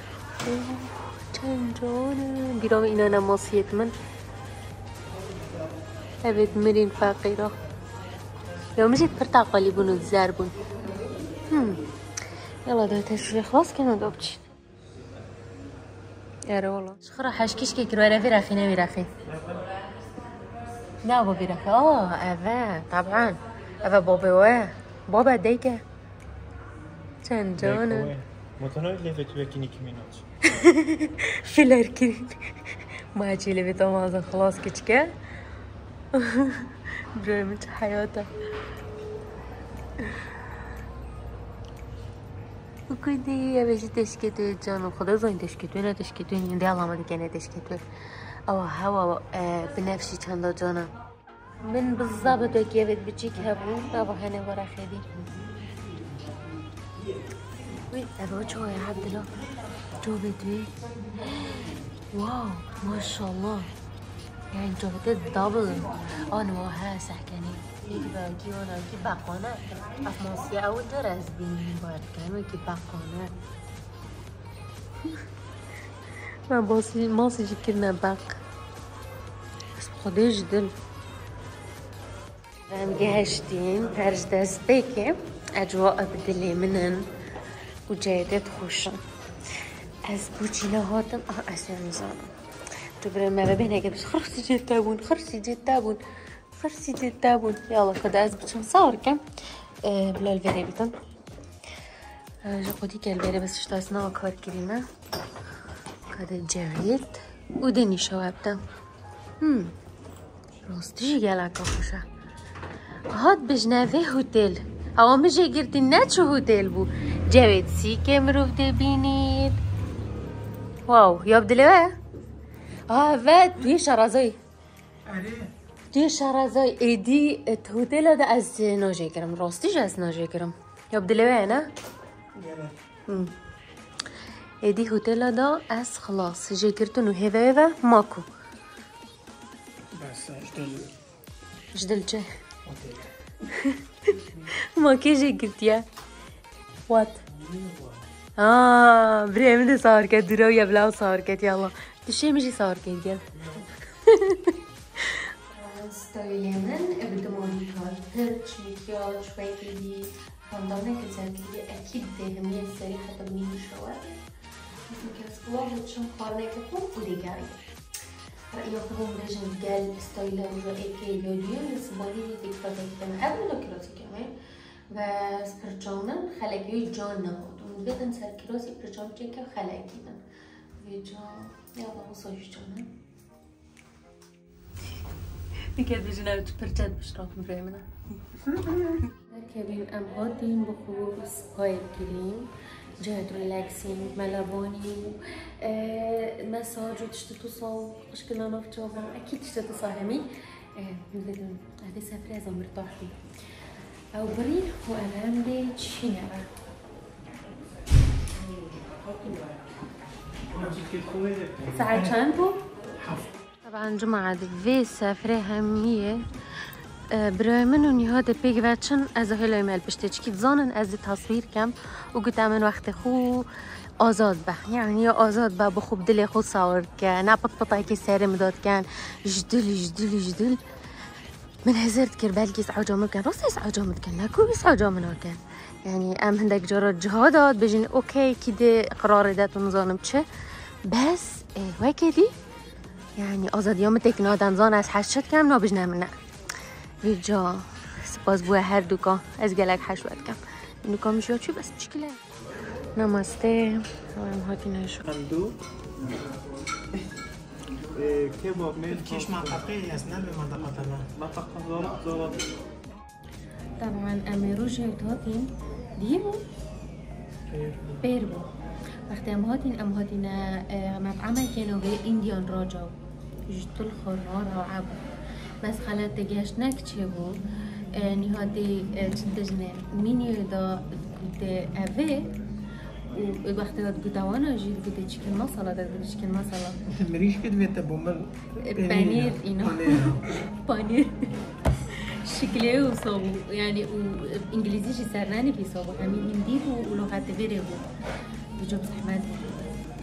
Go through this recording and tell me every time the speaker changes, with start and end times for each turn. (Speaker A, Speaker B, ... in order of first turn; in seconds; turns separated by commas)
Speaker A: 0.4-3.9, Speaker A: 6.2-7.5, Speaker A: 8.8-10.6, Speaker A: 11.5-11.8, Speaker A: 12.6-14.4, Speaker A: 16.5-19.1, Speaker B: 19.2-19.7, Speaker A: 21.0-25.8, Speaker A: 27.2-28.1, Speaker B: 27.6-30.2, Speaker A: 30.4-32.6, Speaker A: 33.1-35.1, Speaker A: 36.1-38.3, Speaker A: 40.0-40.3, Speaker A: 42.9-47.8, Speaker A: 48.5-50.9, Speaker A: 51.6-55.1, Speaker A: 57.9-59.4, Speaker A: 60.0-63.7, Speaker A: 64.5-73.3, Speaker A: 76.5-78.4, Speaker A: 79.8-80.7, Speaker A: 82.7-87.1, Speaker A: 87.9-89.0, Speaker A: 89.5-99.2, Speaker A: 99.8-100.9, Speaker A: 102.4-104.8, Speaker A: 106.1-108.6, Speaker A: 109.4-109.7, Speaker A: 110.6-112.0, Speaker A: 113.1-119.6, Speaker A: 120.9-121.9, Speaker A: 122.9-124.4, Speaker C: 125.1-125.5, Speaker A: 125.9-131.7, Speaker C: 132.4-132.8, Speaker A: 133.1-133.3, Speaker A: 134.6-138.3, Speaker C: 139.9-140.9, Speaker A: 141.7-142.3, Speaker C: 142.6-143.1, Speaker A: 143.5-145.8, Speaker A: 146.9-147.2, Speaker B: 147.4-147.9, Speaker A: 148.4-164.2, Speaker A: 164.9-167.6, Speaker A: 168.5-174.3, Speaker A: 174.9-180.2, Speaker A: 180.8-182.9, Speaker A: 185.6-203.2, Speaker A: 204.1-206.5, Speaker B: 210.5-212.0, Speaker A: 211.7-212.6, Speaker C: 211.9-212.2, Speaker C: 213.0-213.3, Speaker A: 213.6-216.2, Speaker A: 217.1-230.6, Speaker A: 231.6-240.2, Speaker A: 240.8-242.3, Speaker A: 243.2-246.1, Speaker A: 247.0-252.2, Speaker A: 252.9-255.0, Speaker B: 255.0-255.5, Speaker B: 257.9-259.6, Speaker C: 258.9-261.1, Speaker B: 261.1-262.4, Speaker A: 263.8-266.4, Speaker C: 267.5-268.0, Speaker A: 268.0-268.5, Speaker A: 269.1-272.9, Speaker A: 273.5-275.0, Speaker A: 275.6-277.4, Speaker A: 277.9-282.3, Speaker A: 283.1-286.8, Speaker C: 286.9-290.2, Speaker A: 288.6-291.3, Speaker A: 291.9-297.9, Speaker A: 298.6-299.6